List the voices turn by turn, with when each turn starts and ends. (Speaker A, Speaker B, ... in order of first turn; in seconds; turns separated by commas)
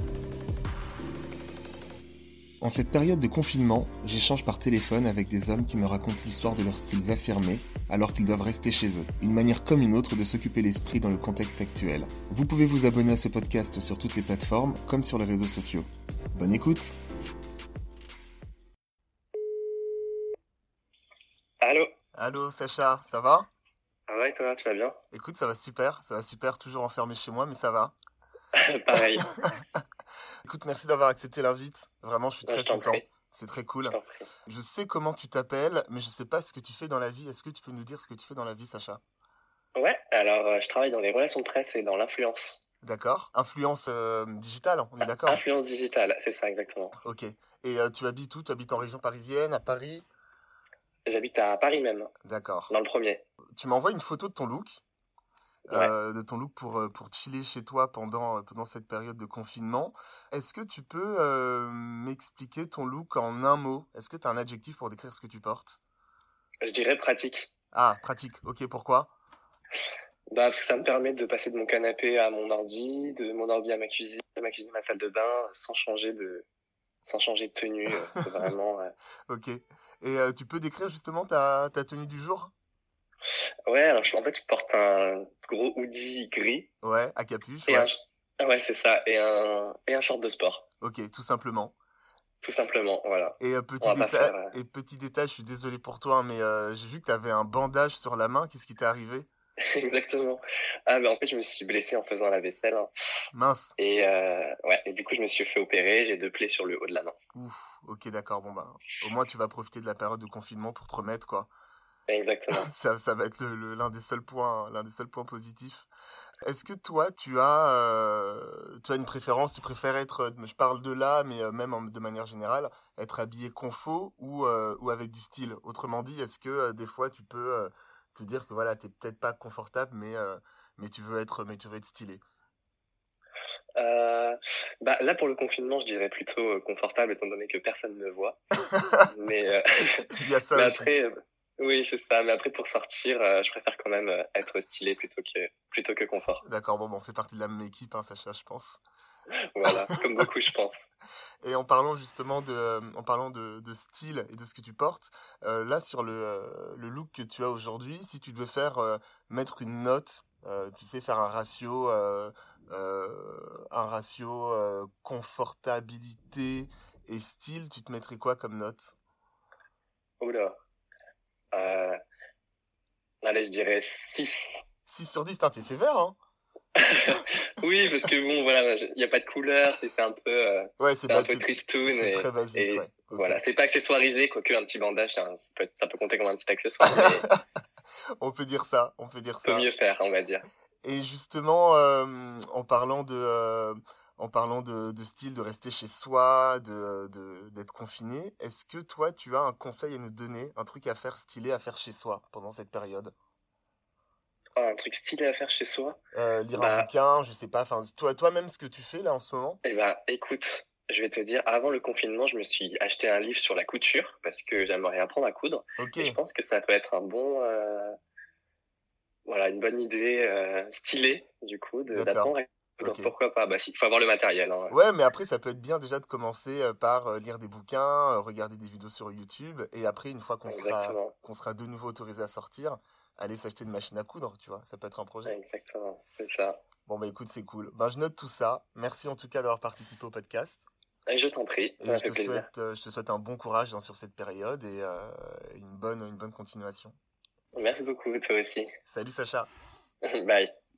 Speaker A: 2.6-16.9, Speaker B: 21.6-21.9, Speaker A: 22.1-23.5, Speaker B: 24.1-25.0, Speaker A: 25.1-27.9, Speaker B: 28.5-29.2, Speaker A: 30.4-39.0, Speaker B: 32.5-33.0, Speaker B: 33.9-34.2, Speaker B: 39.8-42.6, Speaker A: 42.8-45.4, Speaker B: 45.2-47.0, Speaker A: 47.0-50.0, Speaker B: 51.1-52.1, Speaker A: 52.2-52.7, Speaker B: 52.7-53.2, Speaker A: 53.6-54.8, Speaker A: 55.7-65.8, Speaker B: 66.6-67.5, Speaker A: 67.7-69.1, Speaker B: 70.3-76.5, Speaker B: 77.0-78.9, Speaker A: 79.3-82.5, Speaker B: 83.7-86.7, Speaker A: 86.8-87.9, Speaker B: 87.7-90.6, Speaker A: 90.8-91.7, Speaker B: 92.4-94.5, Speaker A: 93.4-99.3, Speaker B: 99.6-102.9, Speaker A: 103.3-103.7, Speaker B: 103.8-107.2, Speaker A: 107.3-111.5, Speaker B: 112.1-112.7, Speaker A: 112.5-115.9, Speaker A: 116.4-132.2, Speaker B: 133.8-138.4, Speaker A: 138.7-139.1, Speaker B: 139.1-146.4, Speaker A: 140.2-140.9, Speaker A: 146.4-148.8, Speaker B: 149.3-150.8, Speaker A: 151.4-168.9, Speaker B: 170.2-170.6, Speaker B: 171.5-172.0, Speaker B: 173.2-174.6, Speaker A: 174.9-176.2, Speaker B: 176.7-187.3, Speaker A: 180.8-183.4, Speaker A: 186.9-187.3, Speaker A: 188.2-189.7, Speaker B: 189.4-190.4, Speaker A: 190.8-203.1, Speaker B: 204.6-206.0, Speaker A: 206.1-209.6, Speaker B: 206.5-206.9, Speaker B: 209.6-217.9, Speaker A: 215.8-216.2, Speaker B: 219.2-224.8, Speaker A: 221.9-223.1, Speaker A: 224.7-235.3, Speaker B: 230.4-231.1, Speaker B: 235.2-236.6, Speaker A: 236.8-240.7, Speaker B: 241.1-242.5, Speaker A: 241.8-246.9, Speaker B: 247.5-248.7, Speaker A: 248.8-249.5, Speaker B: 250.1-250.5